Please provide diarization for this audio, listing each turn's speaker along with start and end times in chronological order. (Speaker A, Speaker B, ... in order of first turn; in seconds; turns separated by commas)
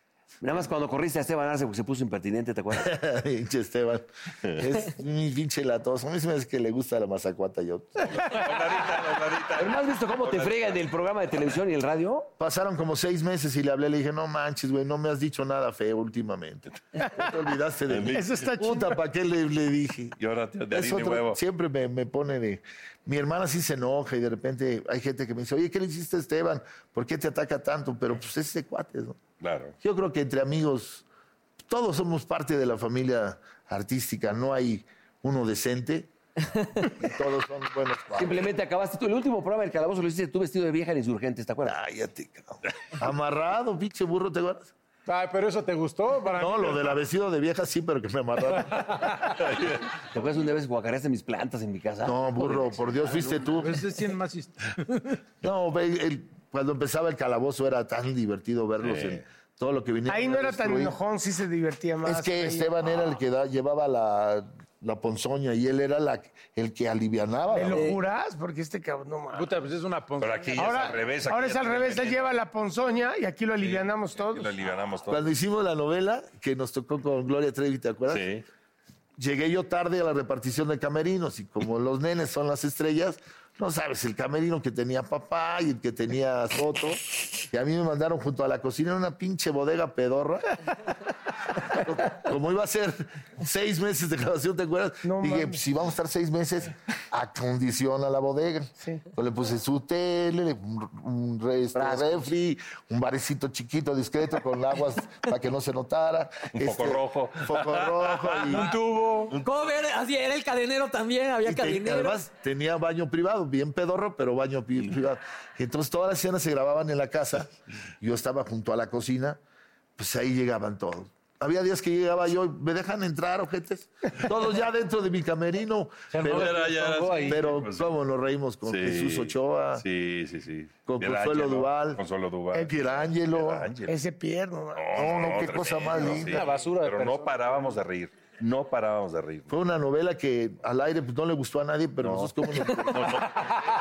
Speaker A: 0.4-2.9, Speaker B: 2.7-8.1, Speaker C: 8.1-10.8, Speaker A: 9.6-12.3, Speaker B: 12.4-20.2, Speaker C: 17.9-18.3, Speaker D: 18.1-19.0, Speaker C: 20.2-21.4, Speaker B: 20.7-29.2, Speaker C: 29.4-29.8, Speaker B: 29.8-31.0, Speaker B: 31.7-36.1, Speaker B: 37.0-38.5, Speaker A: 38.1-41.8, Speaker B: 41.6-44.7, Speaker E: 45.1-46.9, Speaker B: 46.3-49.0, Speaker C: 49.4-49.8, Speaker A: 50.1-53.4, Speaker B: 52.0-53.8, Speaker E: 53.5-55.1, Speaker B: 55.4-61.0, Speaker C: 58.8-59.2, Speaker D: 60.1-62.7, Speaker B: 62.0-68.0, Speaker D: 67.5-69.5, Speaker E: 69.3-71.0, Speaker C: 70.2-72.4, Speaker D: 70.5-74.5, Speaker C: 73.6-75.3, Speaker B: 75.1-78.3, Speaker C: 78.1-78.4, Speaker B: 79.2-90.6, Speaker B: 91.6-108.8, Speaker D: 95.0-95.6, Speaker D: 98.8-99.0, Speaker A: 101.7-102.3, Speaker C: 106.5-108.8, Speaker E: 108.5-109.3, Speaker F: 109.4-112.2, Speaker B: 111.4-119.4, Speaker B: 120.0-126.6, Speaker E: 126.1-127.5, Speaker C: 126.3-127.9, Speaker B: 127.2-129.8, Speaker C: 128.6-132.7, Speaker B: 130.8-132.0, Speaker B: 132.6-133.7, Speaker C: 133.3-133.9, Speaker D: 133.9-135.2, Speaker C: 134.7-139.5, Speaker B: 134.9-136.5, Speaker E: 135.9-137.8, Speaker B: 139.5-143.2, Speaker C: 142.0-143.4